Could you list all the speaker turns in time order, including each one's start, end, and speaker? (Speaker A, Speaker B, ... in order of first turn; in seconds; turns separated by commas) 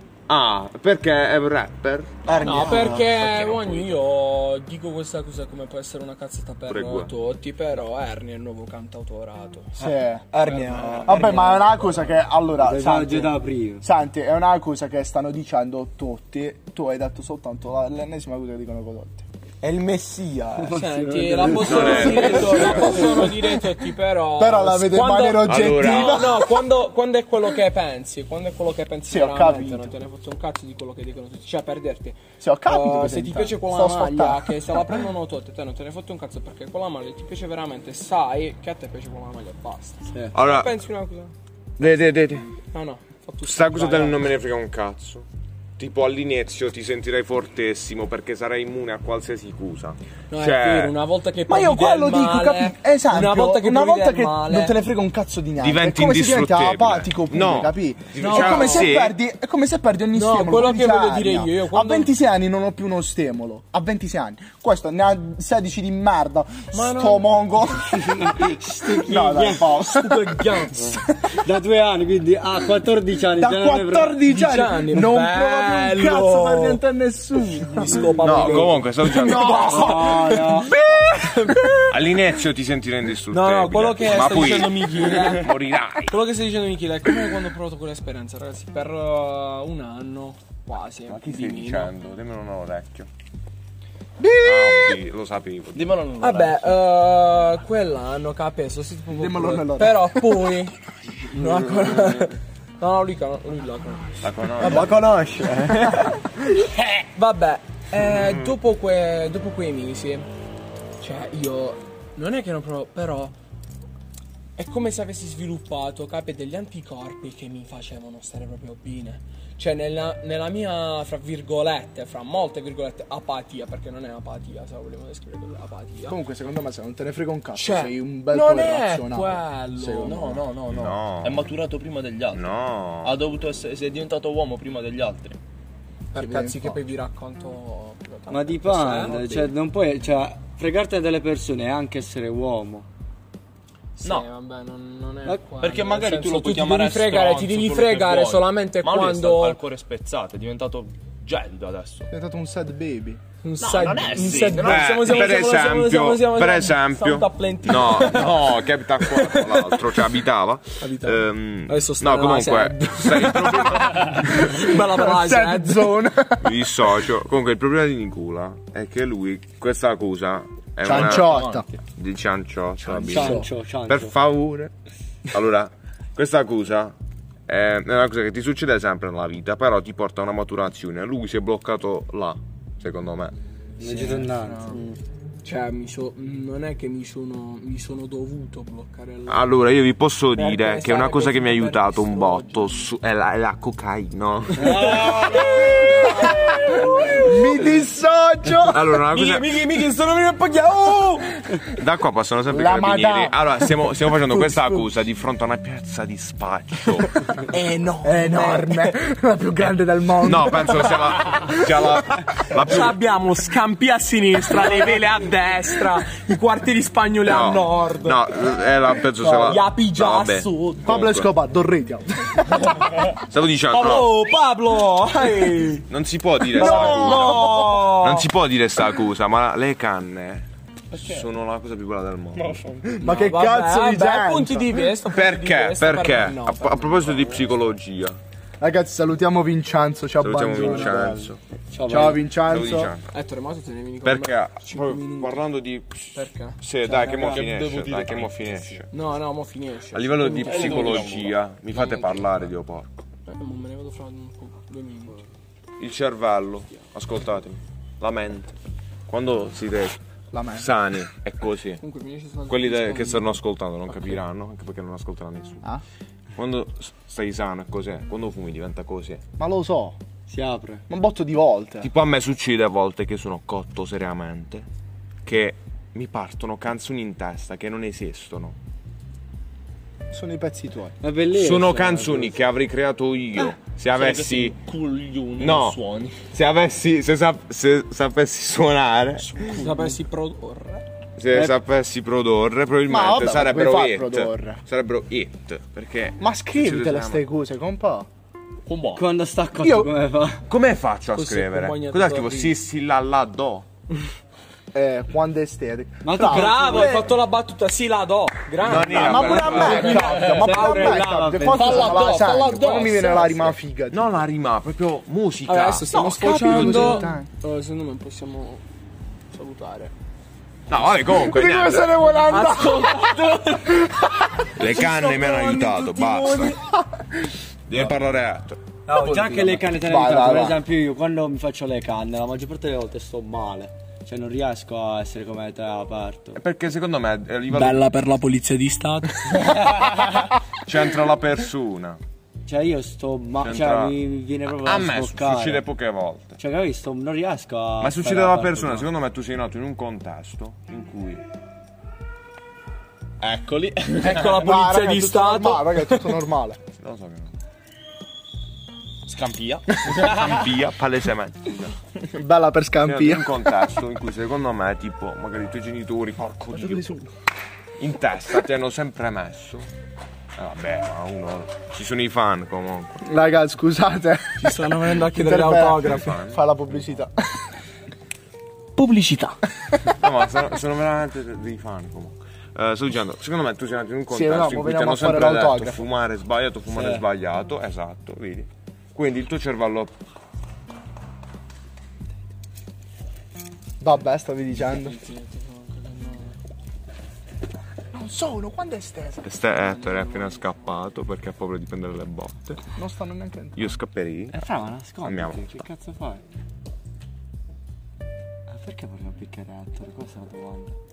Speaker A: 0.3-2.3, Speaker B: 2.3-3.1, Speaker C: 2.4-9.8, Speaker D: 2.7-3.9, Speaker A: 6.7-7.1, Speaker E: 9.8-10.3, Speaker B: 9.8-11.6, Speaker C: 10.5-12.2, Speaker E: 11.0-19.2, Speaker F: 12.6-13.8, Speaker B: 19.6-20.8, Speaker F: 20.7-22.2, Speaker C: 20.7-41.3, Speaker A: 21.6-23.0, Speaker E: 21.9-23.3, Speaker E: 24.4-26.6, Speaker A: 25.4-26.4, Speaker E: 29.1-29.9, Speaker E: 32.4-35.1, Speaker A: 40.3-40.8, Speaker A: 41.8-42.5, Speaker C: 42.7-44.3, Speaker A: 43.4-45.3, Speaker A: 45.8-51.0, Speaker C: 50.3-54.8, Speaker E: 51.5-71.3, Speaker A: 55.6-59.2, Speaker C: 58.2-59.0, Speaker C: 60.1-62.1, Speaker C: 66.7-67.7, Speaker F: 67.9-69.7, Speaker C: 69.1-71.0, Speaker F: 70.8-74.2, Speaker E: 73.4-80.0, Speaker C: 74.3-76.8, Speaker C: 77.7-81.9, Speaker A: 78.2-80.0, Speaker F: 79.5-80.8, Speaker A: 81.9-86.2, Speaker C: 83.3-91.9, Speaker A: 91.1-93.1, Speaker E: 94.2-95.0, Speaker A: 94.4-96.0, Speaker D: 95.7-96.8, Speaker C: 96.2-104.7, Speaker E: 99.2-100.3, Speaker A: 104.2-105.0, Speaker E: 104.6-104.9, Speaker B: 104.7-106.0, Speaker C: 106.9-110.3, Speaker A: 108.1-108.4, Speaker C: 111.0-113.3, Speaker C: 114.6-126.2, Speaker E: 126.0-130.4, Speaker C: 127.5-130.4, Speaker D: 130.0-135.4, Speaker A: 130.7-131.5, Speaker A: 132.3-133.2, Speaker C: 136.1-139.5, Speaker E: 136.1-136.8, Speaker F: 138.3-142.9, Speaker C: 144.0-149.6, Speaker D: 145.6-152.1, Speaker E: 152.1-153.2, Speaker C: 153.4-160.1, Speaker D: 153.6-155.1, Speaker A: 154.5-164.2, Speaker C: 160.8-166.1, Speaker E: 163.9-167.0, Speaker A: 166.4-174.7, Speaker E: 170.8-171.7, Speaker D: 170.9-171.7, Speaker D: 172.8-173.2, Speaker F: 173.0-174.2, Speaker E: 173.1-173.5, Speaker A: 175.3-176.9, Speaker A: 177.5-183.3, Speaker F: 183.8-185.0, Speaker E: 183.9-184.8, Speaker C: 185.4-189.5, Speaker A: 189.3-195.1, Speaker C: 190.3-192.9, Speaker C: 194.6-197.6, Speaker E: 197.2-199.0, Speaker A: 198.6-199.6, Speaker C: 199.1-201.3, Speaker A: 201.7-207.2, Speaker E: 202.5-204.9, Speaker C: 207.5-209.0, Speaker E: 208.0-211.5, Speaker A: 210.2-213.0, Speaker C: 212.6-218.2, Speaker A: 217.2-221.3, Speaker E: 219.2-219.6, Speaker C: 219.3-221.1, Speaker E: 220.8-222.4, Speaker C: 222.6-223.0, Speaker A: 223.1-224.2, Speaker C: 223.7-225.9, Speaker A: 225.9-232.6, Speaker C: 226.5-228.3, Speaker E: 226.6-227.9, Speaker F: 232.4-232.9, Speaker E: 233.0-234.9, Speaker C: 233.0-237.5, Speaker A: 235.1-238.2, Speaker E: 238.6-241.3, Speaker A: 240.2-241.4, Speaker F: 240.6-241.1, Speaker F: 241.7-242.3, Speaker E: 241.9-242.9, Speaker A: 242.3-243.1, Speaker C: 243.1-245.5, Speaker A: 244.0-248.9, Speaker C: 246.1-246.6, Speaker F: 246.8-247.6, Speaker D: 247.2-248.8, Speaker C: 248.9-251.3, Speaker A: 249.9-252.9, Speaker D: 250.4-251.4, Speaker F: 251.7-252.0, Speaker C: 251.9-252.2, Speaker C: 253.3-255.2, Speaker A: 255.8-258.6, Speaker A: 259.1-261.8, Speaker E: 260.3-260.7, Speaker C: 261.8-263.3, Speaker A: 262.5-265.7, Speaker A: 266.4-269.2, Speaker E: 269.4-270.0, Speaker F: 270.3-270.8, Speaker E: 270.9-271.9, Speaker A: 271.8-274.7, Speaker A: 275.2-278.6, Speaker E: 280.1-281.0, Speaker F: 281.0-282.5, Speaker A: 281.3-284.6, Speaker D: 283.9-286.2, Speaker A: 285.4-289.6, Speaker C: 289.2-290.9, Speaker A: 291.2-297.2, Speaker F: 291.3-291.6, Speaker E: 292.9-294.6, Speaker E: 296.2-298.1, Speaker D: 298.7-299.0, Speaker F: 298.9-300.5, Speaker E: 299.6-299.9, Speaker A: 300.5-303.7, Speaker C: 301.1-302.6, Speaker E: 304.7-307.1, Speaker F: 306.0-307.1, Speaker C: 306.2-313.6, Speaker A: 308.6-310.3, Speaker E: 308.7-314.2, Speaker B: 310.2-312.2, Speaker F: 310.3-312.0, Speaker A: 313.9-317.1, Speaker C: 315.5-318.6, Speaker E: 315.9-317.3, Speaker C: 319.3-319.9, Speaker A: 320.7-322.0, Speaker E: 321.0-324.5, Speaker C: 322.1-323.9, Speaker A: 324.5-326.6, Speaker F: 324.8-326.5, Speaker A: 327.7-328.6, Speaker F: 328.9-336.4, Speaker B: 329.2-329.5, Speaker E: 329.7-330.6, Speaker A: 336.4-337.9, Speaker C: 337.5-339.9, Speaker A: 340.6-342.0, Speaker F: 342.5-345.7, Speaker A: 343.4-344.0, Speaker A: 344.5-346.4, Speaker F: 346.4-348.9, Speaker A: 347.8-351.2, Speaker D: 353.2-354.2, Speaker C: 353.9-356.2, Speaker E: 354.2-356.6, Speaker A: 356.8-357.3, Speaker D: 359.1-360.5, Speaker A: 359.8-361.8, Speaker E: 362.1-363.5, Speaker A: 362.8-366.9, Speaker E: 366.5-367.1, Speaker A: 367.8-369.7, Speaker A: 370.4-373.1, Speaker E: 373.1-377.5, Speaker C: 374.4-376.2, Speaker A: 375.9-376.4, Speaker C: 378.8-379.3, Speaker A: 380.0-389.9, Speaker E: 384.1-385.9, Speaker F: 386.7-387.1, Speaker E: 393.8-395.0, Speaker C: 394.6-396.4, Speaker E: 397.9-399.3, Speaker A: 399.2-402.7, Speaker C: 399.6-400.7, Speaker E: 402.8-403.8, Speaker A: 403.6-404.5, Speaker F: 404.3-406.2, Speaker A: 405.0-405.7, Speaker F: 408.5-410.7